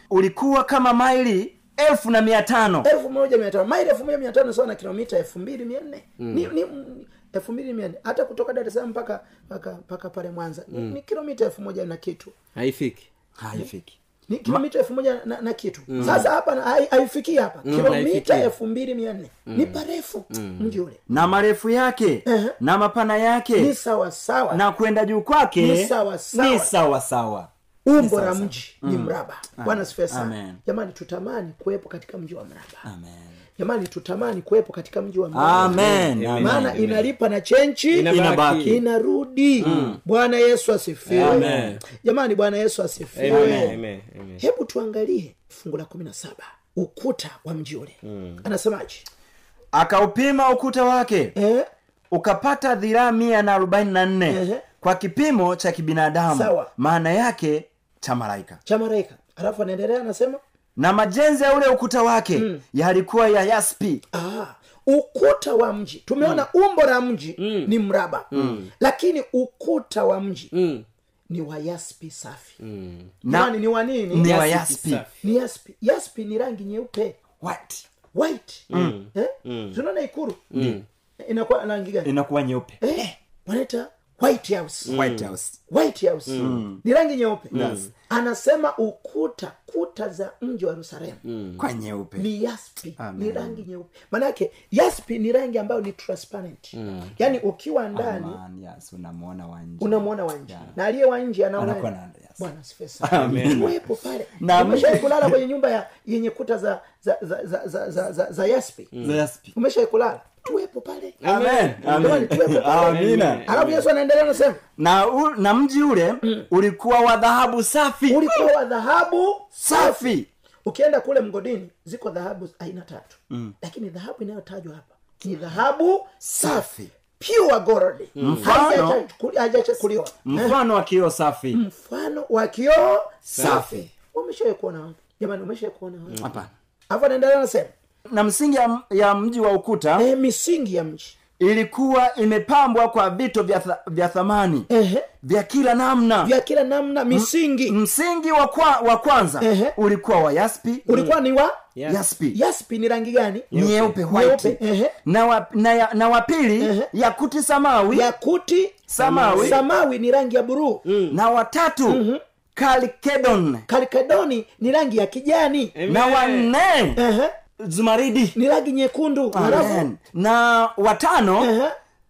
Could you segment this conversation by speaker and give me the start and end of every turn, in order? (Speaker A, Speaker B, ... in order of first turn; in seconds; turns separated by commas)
Speaker A: 0.1-2.9, Speaker B: 2.8-12.3, Speaker C: 6.2-6.5, Speaker C: 12.5-13.1, Speaker A: 13.4-14.6, Speaker B: 14.3-21.0, Speaker C: 15.9-16.3, Speaker A: 16.0-16.3, Speaker C: 17.6-18.5, Speaker A: 17.7-18.0, Speaker C: 19.5-19.8, Speaker C: 20.3-20.8, Speaker A: 21.1-23.7, Speaker B: 22.2-22.6, Speaker B: 23.6-24.6, Speaker A: 24.5-30.6, Speaker B: 25.6-26.7, Speaker B: 27.8-32.9, Speaker A: 32.8-33.4, Speaker B: 33.6-43.8, Speaker A: 35.3-37.0, Speaker C: 35.6-36.9, Speaker C: 37.9-38.8, Speaker A: 38.1-38.8, Speaker A: 39.6-40.0, Speaker C: 39.6-40.0, Speaker C: 41.1-41.8, Speaker A: 41.1-41.8, Speaker C: 43.1-44.4, Speaker A: 43.2-43.8, Speaker B: 44.4-49.0, Speaker C: 48.0-48.4, Speaker A: 49.7-51.3, Speaker B: 51.4-51.6, Speaker A: 52.1-58.6, Speaker B: 54.3-54.6, Speaker B: 56.3-56.7, Speaker B: 58.6-60.4, Speaker A: 60.8-64.0, Speaker B: 62.3-62.6, Speaker B: 64.1-68.3, Speaker C: 67.4-67.7, Speaker C: 68.3-68.7, Speaker A: 68.3-68.6, Speaker B: 68.8-70.5, Speaker C: 70.5-70.8, Speaker B: 71.3-72.5, Speaker C: 72.6-73.1, Speaker A: 73.2-73.5, Speaker B: 73.2-74.4, Speaker A: 74.1-75.0, Speaker C: 74.2-75.2, Speaker B: 75.2-77.2, Speaker A: 77.4-77.8, Speaker B: 78.1-80.5, Speaker C: 78.7-79.8, Speaker A: 78.7-79.0, Speaker C: 80.5-80.8, Speaker B: 81.2-82.1, Speaker A: 82.0-83.1, Speaker B: 82.8-85.0, Speaker C: 84.8-85.3, Speaker A: 84.9-85.6, Speaker B: 85.7-91.2, Speaker C: 86.3-86.6, Speaker A: 86.4-86.8, Speaker A: 87.5-87.8, Speaker C: 87.5-87.9, Speaker C: 91.3-91.6, Speaker A: 91.6-92.3, Speaker B: 92.2-98.4, Speaker A: 93.0-93.7, Speaker C: 96.7-97.1, Speaker A: 97.9-100.7, Speaker B: 99.8-108.9, Speaker A: 101.6-102.5, Speaker A: 103.0-103.7, Speaker C: 103.2-103.7, Speaker A: 104.4-105.3, Speaker A: 109.0-109.5, Speaker B: 109.5-111.2, Speaker C: 111.2-113.8, Speaker A: 111.2-113.5, Speaker B: 111.8-114.6, Speaker A: 114.8-118.5, Speaker B: 118.1-130.6, Speaker A: 119.6-120.3, Speaker A: 126.2-126.9, Speaker C: 128.2-128.5, Speaker A: 128.2-129.0, Speaker A: 130.2-131.6, Speaker B: 131.5-136.3, Speaker A: 133.3-133.9, Speaker C: 133.3-133.7, Speaker A: 136.2-136.5, Speaker B: 136.9-137.7, Speaker A: 138.1-140.1, Speaker B: 140.0-141.2, Speaker A: 141.4-144.7, Speaker B: 144.7-145.1, Speaker A: 145.2-146.3, Speaker B: 146.2-147.8, Speaker A: 147.1-150.9, Speaker B: 149.4-149.8, Speaker B: 150.9-151.6, Speaker A: 151.9-152.4, Speaker B: 152.3-153.5, Speaker C: 153.5-154.0, Speaker A: 153.5-158.1, Speaker B: 154.1-154.9, Speaker B: 156.6-156.9, Speaker B: 157.9-158.8, Speaker A: 158.9-159.6, Speaker C: 159.0-159.6, Speaker B: 159.3-160.8, Speaker C: 160.8-161.2, Speaker A: 161.1-162.0, Speaker B: 161.8-162.2, Speaker A: 162.6-163.6, Speaker B: 163.7-165.7, Speaker C: 165.8-166.5, Speaker A: 165.9-167.0, Speaker B: 166.9-167.3, Speaker A: 167.6-168.3, Speaker B: 168.3-169.8, Speaker A: 169.3-171.5, Speaker B: 171.4-171.7